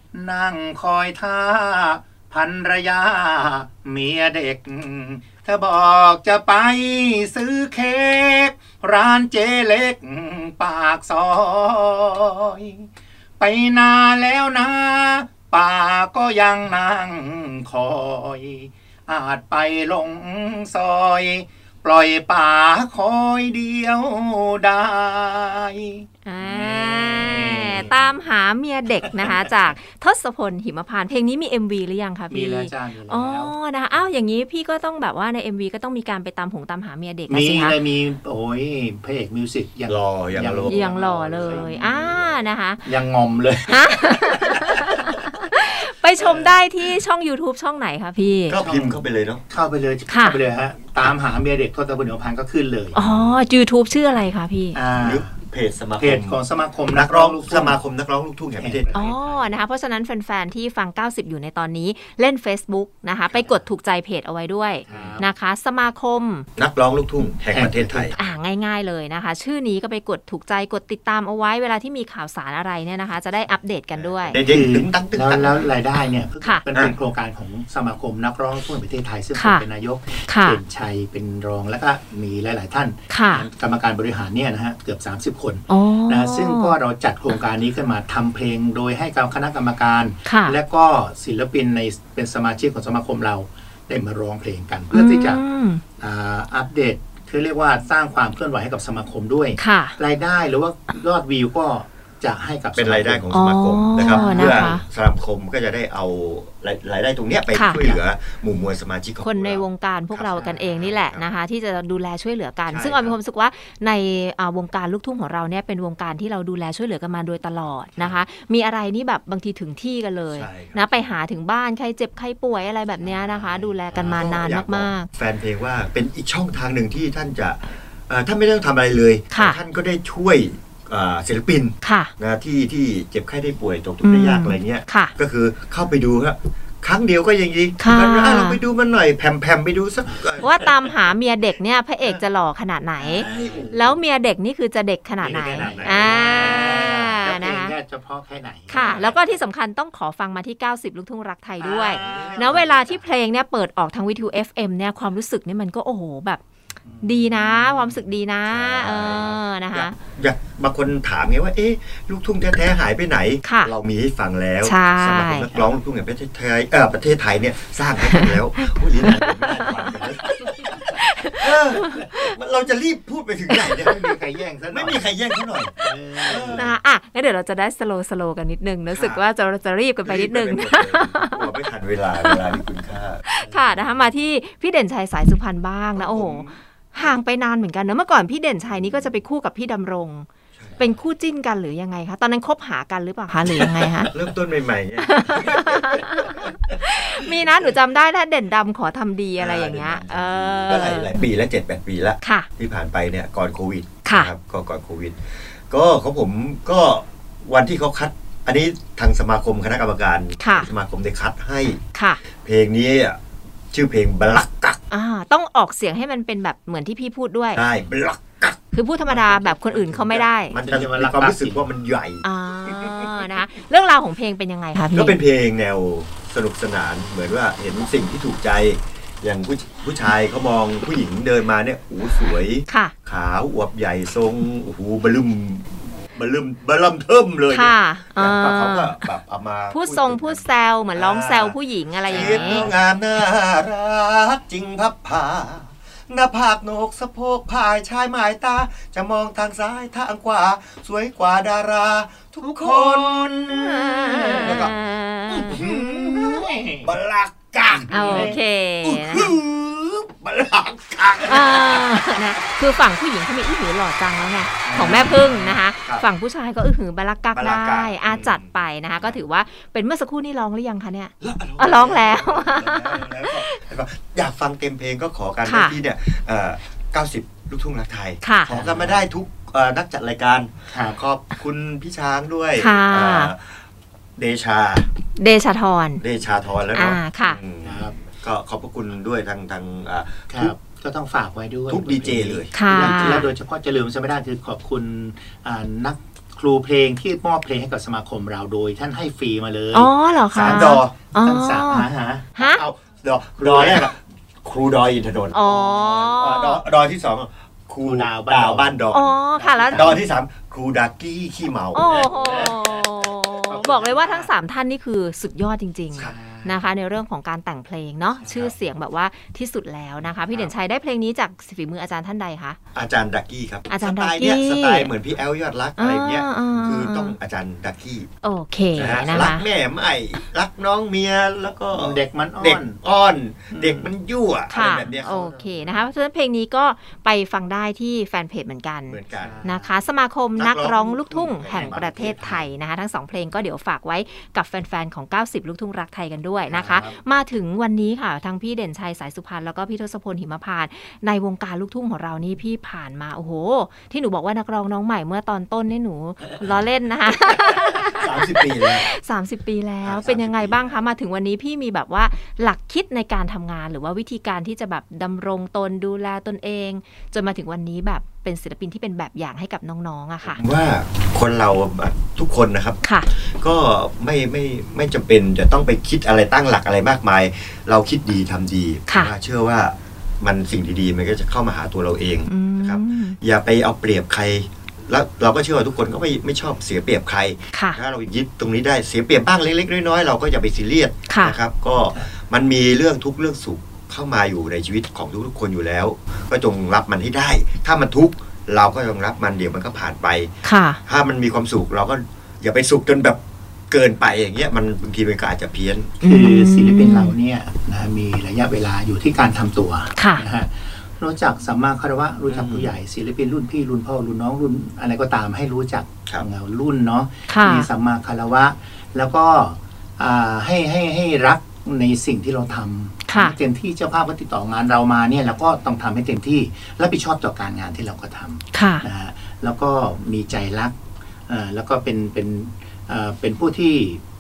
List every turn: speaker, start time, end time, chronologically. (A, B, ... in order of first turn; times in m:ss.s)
0:00.1-0:12.9 A
0:13.4-0:28.0 A
0:26.3-0:37.8 B
0:29.0-0:29.5 A
0:32.3-0:33.6 A
0:37.3-0:42.2 A
0:39.9-0:42.4 C
0:40.6-0:42.9 B
0:42.8-0:45.0 A
0:43.7-0:48.6 B
0:46.2-0:46.6 A
0:48.5-0:49.4 C
0:48.6-0:53.0 A
0:50.1-0:50.4 B
0:52.9-0:54.8 B
0:53.0-0:53.4 C
0:54.7-0:55.4 A
0:55.0-0:56.4 C
0:56.0-0:57.8 A
0:56.9-0:58.9 C
0:58.6-0:59.6 A
0:58.9-1:06.5 B
1:03.3-1:03.6 C
1:04.9-1:05.3 A
1:04.9-1:05.2 C
1:06.6-1:08.2 C
1:07.5-1:08.2 A
1:08.2-1:14.4 B
1:13.9-1:15.6 C
1:14.5-1:35.4 A
1:19.3-1:19.7 B
1:20.3-1:20.6 B
1:23.1-1:23.5 B
1:25.7-1:26.8 B
1:30.3-1:30.6 B
1:34.9-1:35.8 B
1:36.0-1:43.3 A
1:39.6-1:40.0 B
1:42.8-1:51.3 C
1:43.3-1:44.8 B
1:44.0-1:44.8 A
1:47.5-1:47.8 B
1:49.2-2:05.1 B
1:50.4-1:50.8 A
1:52.7-1:53.2 C
1:58.0-1:58.2 C
2:00.3-2:01.2 C
2:03.0-2:20.7 C
2:03.2-2:04.0 A
2:09.3-2:09.6 B
2:11.8-2:12.1 B
2:14.0-2:15.1 B
2:17.8-2:18.6 B
2:20.4-2:27.8 B
2:23.0-2:23.8 A
2:23.2-2:24.0 C
2:25.2-2:29.0 A
2:25.3-2:27.3 C
2:28.7-2:36.4 B
2:28.7-2:29.3 C
2:31.6-2:33.1 A
2:31.8-2:32.6 C
2:36.9-2:38.0 A
2:37.0-2:40.0 B
2:38.5-2:50.6 C
2:43.4-2:43.7 B
2:44.6-2:45.5 B
2:48.0-2:52.3 B
2:51.4-2:54.1 C
2:53.5-2:53.9 B
2:53.9-2:55.1 A
2:54.7-2:56.7 C
2:55.8-2:56.8 A
2:56.6-3:01.6 B
2:58.9-2:59.2 C
3:00.0-3:03.2 C
3:02.2-3:02.6 B
3:03.2-3:14.1 B
3:03.4-3:03.7 A
3:06.0-3:07.2 C
3:08.7-3:09.1 C
3:10.6-3:11.0 C
3:13.4-3:17.7 C
3:15.0-3:21.2 B
3:19.4-3:31.8 C
3:22.2-3:22.5 B
3:24.0-3:24.3 B
3:30.4-3:30.7 B
3:31.9-3:32.2 B
3:32.4-3:33.2 C
3:33.7-3:34.8 C
3:34.9-3:37.6 B
3:37.5-3:43.5 C
3:38.7-3:40.6 B
3:40.6-3:41.7 A
3:42.2-3:45.2 B
3:44.9-4:22.4 C
3:52.7-3:52.9 B
3:57.5-3:59.0 B
3:59.7-4:02.7 B
4:02.2-4:02.8 A
4:12.4-4:13.3 A
4:13.5-4:15.6 B
4:14.1-4:14.6 A
4:15.5-4:16.9 A
4:17.7-4:18.4 A
4:17.9-4:19.3 B
4:21.2-4:33.6 B
4:24.6-4:25.6 A
4:24.7-4:26.1 C
4:27.3-4:29.2 C
4:31.2-4:43.6 C
4:35.4-4:35.8 B
4:38.2-4:38.5 B
4:38.5-4:39.1 A
4:40.7-4:41.0 A
4:42.6-4:43.3 B
4:44.2-4:44.9 C
4:45.2-4:46.0 B
4:46.0-4:50.5 C
4:46.7-4:47.4 B
4:47.6-4:48.0 A
4:50.3-5:02.3 A
4:51.7-4:53.3 C
4:52.5-4:53.3 B
4:59.7-5:02.6 B
5:00.3-5:00.9 C
5:02.4-5:09.1 C
5:03.4-5:03.9 A
5:05.3-5:06.6 B
5:07.8-5:10.1 A
5:08.9-5:10.0 B
5:09.7-5:12.5 C
5:11.7-5:22.6 B
5:11.9-5:14.3 A
5:16.0-5:16.7 A
5:22.7-5:28.1 C
5:23.7-5:24.9 B
5:25.8-5:27.2 B
5:28.2-5:29.5 B
5:28.8-5:35.9 C
5:28.9-5:29.2 A
5:31.6-5:32.8 A
5:33.5-5:33.9 A
5:34.5-6:10.4 B
5:38.9-5:39.4 C
5:39.1-5:39.8 A
5:40.4-5:42.4 C
5:46.5-5:47.0 A
5:56.3-5:56.6 C
5:57.3-5:58.9 C
5:59.8-6:00.8 C
6:10.2-6:46.0 C
6:12.8-6:13.1 B
6:18.9-6:19.1 B
6:22.3-6:23.2 B
6:27.5-6:27.8 B
6:31.1-6:31.4 B
6:40.4-6:40.8 B
6:46.0-7:14.0 A
6:46.0-6:47.1 B
6:50.0-6:50.2 B
6:52.3-6:52.7 C
6:57.3-6:57.7 B
7:03.1-7:03.4 B
7:08.5-7:08.9 B